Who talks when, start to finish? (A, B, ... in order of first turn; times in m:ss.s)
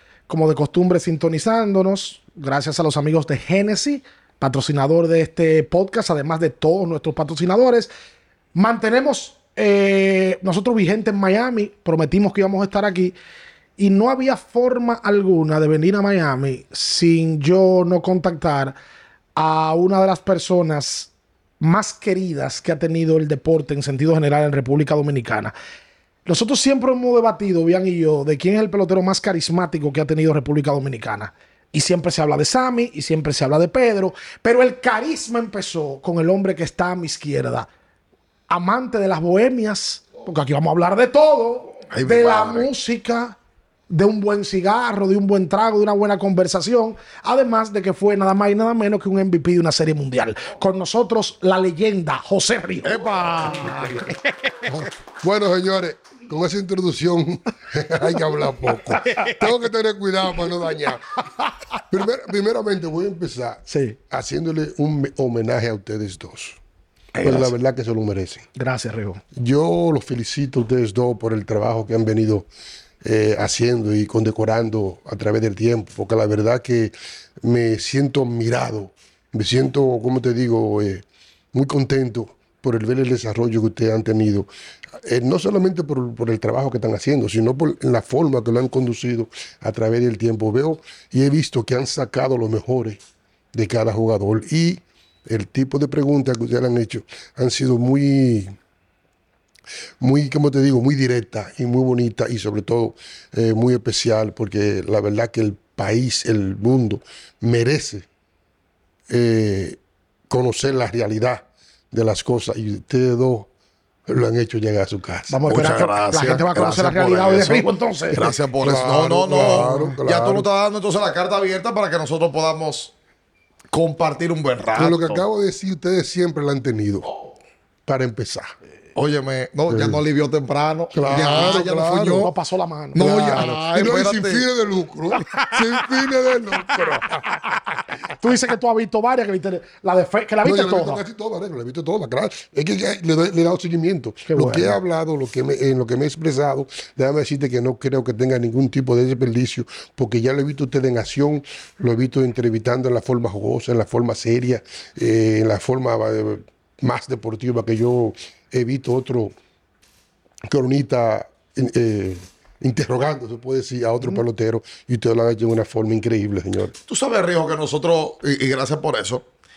0:00.3-0:07.9 A
0:08.5-0:13.2 A
0:13.8-0:18.8 A
0:19.4-0:25.5 A
0:26.2-0:37.7 A
0:38.5-0:43.4 A
0:41.9-0:42.7 B
0:43.9-0:54.1 A
0:52.8-0:54.0 B
0:54.6-1:01.2 C
0:59.1-0:59.4 B
1:01.9-1:06.6 C
1:03.7-1:04.0 A
1:07.2-1:07.5 B
1:07.2-1:08.4 C
1:08.6-1:09.2 A
1:09.3-1:12.5 C
1:13.0-1:24.5 C
1:25.0-1:33.0 C
1:33.5-1:38.5 C
1:40.0-1:48.1 C
1:49.1-1:53.5 C
1:54.1-1:55.4 C
1:55.3-1:58.3 A
1:55.5-2:02.9 B
1:58.1-2:00.5 C
2:03.7-2:05.2 B
2:04.7-2:07.1 C
2:07.8-2:08.5 C
2:08.9-2:12.1 B
2:09.7-2:10.0 C
2:10.9-2:12.3 C
2:11.3-2:13.4 A
2:12.9-2:17.2 C
2:13.0-2:14.5 B
2:15.2-2:15.6 B
2:17.0-2:17.5 A
2:18.2-2:21.0 A
2:20.4-2:39.3 C
2:24.3-2:24.8 A
2:40.5-2:46.7 C
2:46.8-2:49.2 B